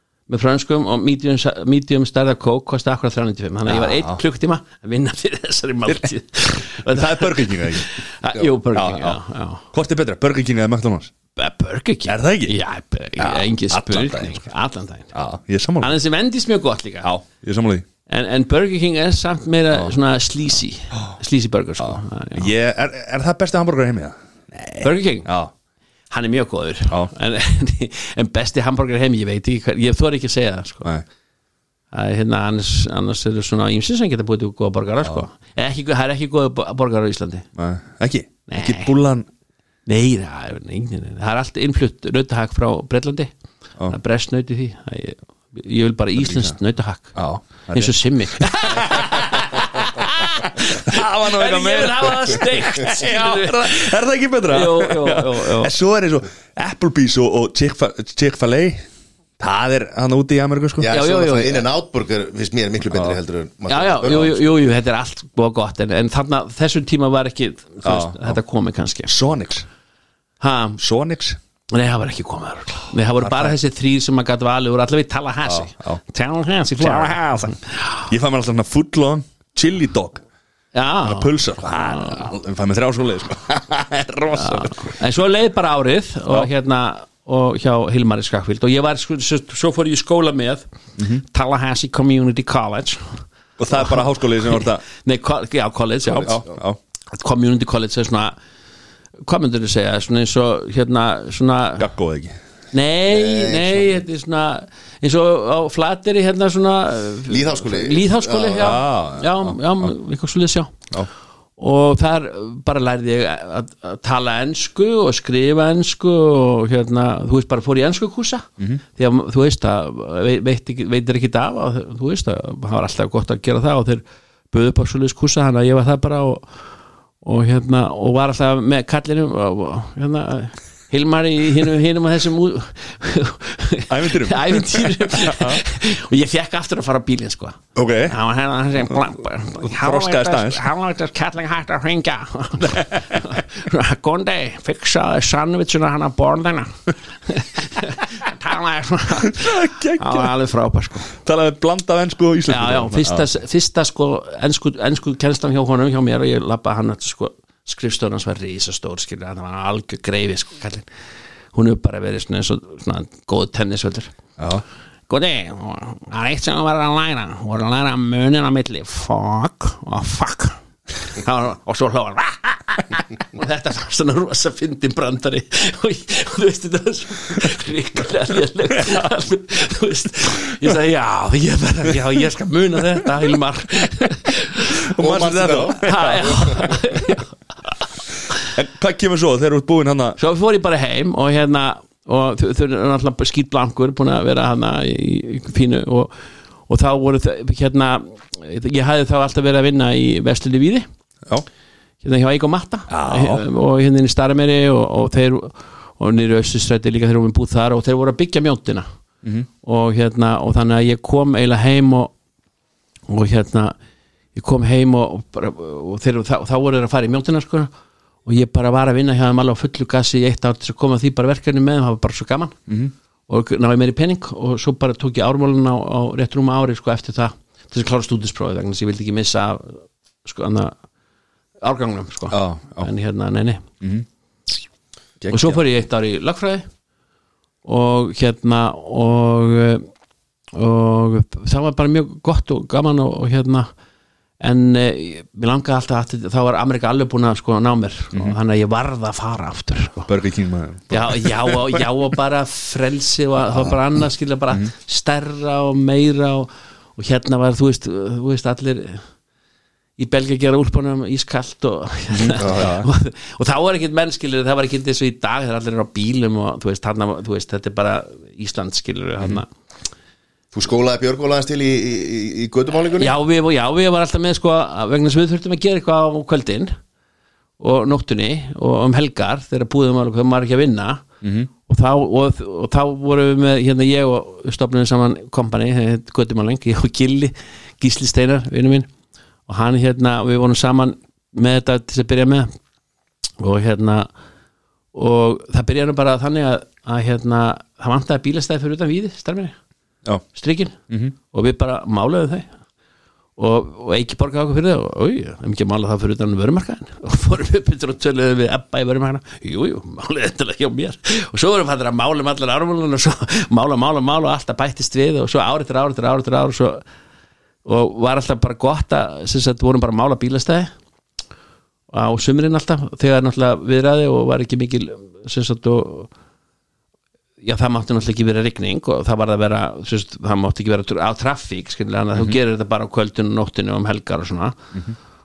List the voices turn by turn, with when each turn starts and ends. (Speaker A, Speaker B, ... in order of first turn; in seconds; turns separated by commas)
Speaker A: 0.3-9.7, Speaker B: 3.7-4.2, Speaker B: 6.9-9.2, Speaker B: 9.7-11.1, Speaker A: 11.4-15.1, Speaker B: 12.1-12.6, Speaker B: 13.2-14.4, Speaker B: 15.1-15.9, Speaker A: 15.8-17.1, Speaker B: 17.0-17.9, Speaker A: 18.1-22.5, Speaker B: 21.8-25.5, Speaker A: 24.8-25.3, Speaker A: 26.1-30.9, Speaker A: 31.9-37.5, Speaker B: 37.6-39.3, Speaker A: 38.5-38.9, Speaker A: 39.9-43.3, Speaker A: 43.9-47.1, Speaker B: 46.2-46.5, Speaker B: 47.1-58.9, Speaker A: 47.7-55.7, Speaker B: 59.4-60.9, Speaker C: 60.8-64.4, Speaker A: 60.9-61.6, Speaker A: 63.7-69.1, Speaker B: 67.8-68.4, Speaker B: 69.1-69.7, Speaker A: 70.4-70.8, Speaker B: 70.8-71.4, Speaker A: 71.7-78.1, Speaker B: 73.2-73.5, Speaker B: 75.5-76.0, Speaker B: 76.8-80.2, Speaker A: 80.8-81.3, Speaker B: 81.0-85.0, Speaker A: 84.3-90.7, Speaker B: 91.0-91.2, Speaker A: 91.2-96.4, Speaker B: 93.6-94.8, Speaker B: 96.2-96.8, Speaker A: 97.1-98.4, Speaker A: 99.3-101.9, Speaker B: 101.8-102.4, Speaker A: 102.7-110.8, Speaker C: 103.1-104.0, Speaker C: 107.3-108.7, Speaker B: 108.6-109.9, Speaker A: 111.6-126.6, Speaker A: 127.2-151.1, Speaker B: 133.9-135.6, Speaker B: 137.8-138.2, Speaker B: 139.6-140.7, Speaker B: 142.7-143.2, Speaker B: 149.3-150.3, Speaker B: 151.1-153.2, Speaker A: 152.5-160.9, Speaker A: 161.5-164.1, Speaker B: 164.4-164.6, Speaker A: 165.1-184.9, Speaker B: 184.9-186.8, Speaker C: 185.0-186.5, Speaker A: 185.8-187.3, Speaker B: 188.4-190.2, Speaker A: 190.2-196.2, Speaker A: 196.7-200.9, Speaker A: 202.0-208.9, Speaker B: 202.9-203.4, Speaker A: 209.6-212.1, Speaker A: 213.1-213.8, Speaker A: 214.3-217.7, Speaker A: 218.2-222.6, Speaker B: 222.7-222.9, Speaker A: 223.3-230.8, Speaker A: 231.6-233.7, Speaker B: 232.3-232.9, Speaker B: 233.8-234.1, Speaker B: 235.2-235.6, Speaker A: 235.3-236.7, Speaker A: 237.7-239.9, Speaker A: 240.5-243.7, Speaker A: 244.4-250.1, Speaker B: 250.1-251.8, Speaker A: 250.9-259.1, Speaker B: 253.5-253.8, Speaker A: 260.0-269.5, Speaker B: 262.1-262.9, Speaker C: 262.4-262.7, Speaker C: 270.5-273.1, Speaker A: 272.9-276.8, Speaker A: 277.6-281.1, Speaker B: 281.2-281.5, Speaker A: 281.7-288.9, Speaker A: 289.5-292.5, Speaker A: 293.4-294.1, Speaker A: 294.9-299.6, Speaker A: 300.3-300.7, Speaker B: 300.9-301.1, Speaker A: 301.3-302.5, Speaker A: 303.4-316.8, Speaker A: 317.6-320.7, Speaker A: 321.9-326.1, Speaker A: 327.4-334.6